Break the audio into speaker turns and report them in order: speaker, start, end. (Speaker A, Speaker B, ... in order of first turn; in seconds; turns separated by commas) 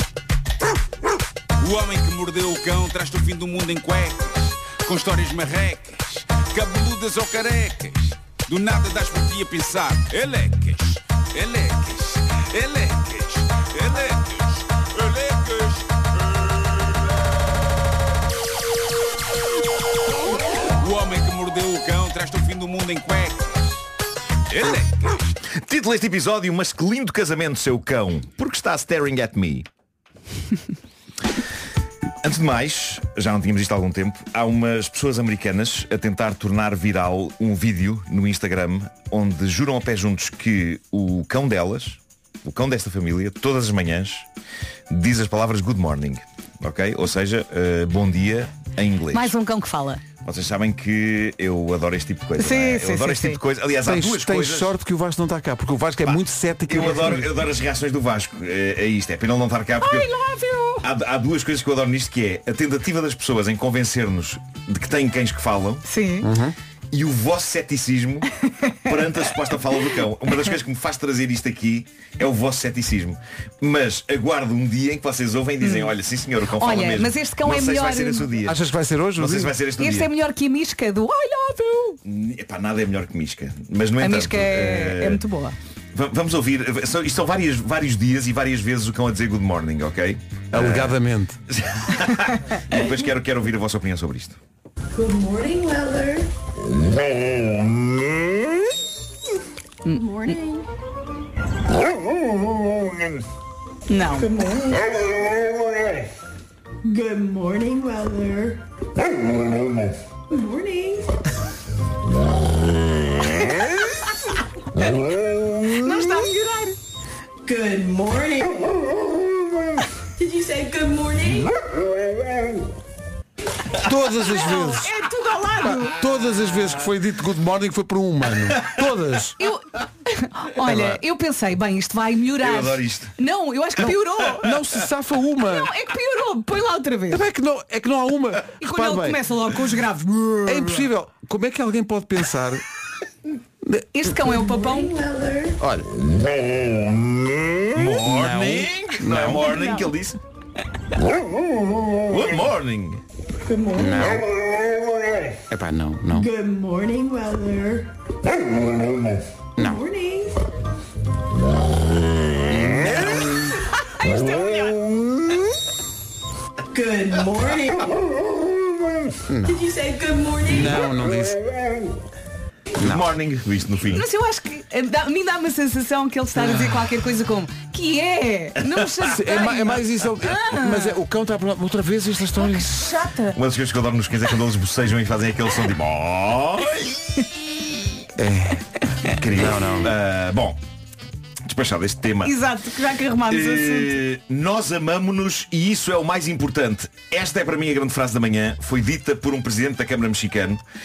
Speaker A: 1.6-16.6, Speaker A: 20.8-23.8, Speaker A: 24.5-25.2, Speaker B: 25.6-29.6, Speaker B: 32.2-44.2, Speaker B: 44.9-49.3, Speaker C: 49.1-50.0, Speaker B: 50.2-54.7, Speaker C: 52.4-53.4, Speaker D: 53.8-57.3, Speaker B: 56.0-60.1, Speaker C: 59.8-60.9, Speaker B: 60.8-65.8, Speaker C: 65.8-66.3, Speaker D: 66.2-66.5, Speaker B: 66.9-68.3, Speaker C: 68.6-68.9, Speaker B: 68.8-78.6, Speaker C: 75.6-75.9, Speaker C: 76.6-78.3, Speaker D: 78.4-79.5, Speaker B: 79.2-80.1, Speaker C: 79.8-82.0, Speaker B: 82.0-85.2, Speaker C: 84.0-85.6, Speaker B: 85.9-91.0, Speaker D: 90.5-91.4, Speaker B: 91.5-94.4, Speaker E: 94.9-96.3, Speaker C: 99.8-100.3, Speaker E: 99.9-100.6, Speaker C: 103.9-104.3, Speaker E: 104.1-105.0, Speaker E: 106.8-108.6, Speaker E: 110.3-111.1, Speaker C: 115.7-116.8, Speaker E: 117.4-118.8, Speaker E: 120.2-121.5, Speaker D: 123.8-124.9, Speaker C: 124.2-126.0, Speaker D: 125.6-129.4, Speaker C: 129.4-134.5, Speaker D: 130.6-131.0, Speaker B: 132.4-133.1, Speaker D: 134.4-135.7, Speaker C: 135.4-137.2, Speaker D: 137.1-139.2, Speaker C: 138.6-140.9, Speaker D: 140.4-142.6, Speaker C: 143.9-144.9, Speaker E: 144.2-145.6, Speaker D: 145.6-145.9, Speaker B: 147.7-150.2, Speaker D: 148.0-149.5, Speaker C: 149.3-149.9, Speaker B: 152.1-153.0, Speaker E: 153.4-154.3, Speaker D: 153.7-154.3, Speaker D: 155.5-156.3, Speaker E: 156.1-157.9, Speaker D: 159.6-159.8, Speaker E: 159.6-160.4, Speaker D: 162.5-163.3, Speaker C: 164.0-164.8, Speaker E: 166.7-167.9, Speaker D: 169.3-169.6, Speaker E: 169.4-170.9, Speaker D: 170.5-171.4, Speaker B: 172.8-174.0, Speaker D: 172.8-173.0, Speaker C: 173.9-181.0, Speaker B: 178.7-179.1, Speaker D: 179.1-182.8, Speaker C: 182.4-183.4, Speaker B: 183.3-187.2, Speaker D: 188.2-188.7, Speaker B: 189.1-190.6, Speaker D: 189.3-189.9, Speaker B: 191.4-192.3, Speaker C: 192.2-194.0, Speaker B: 193.3-200.6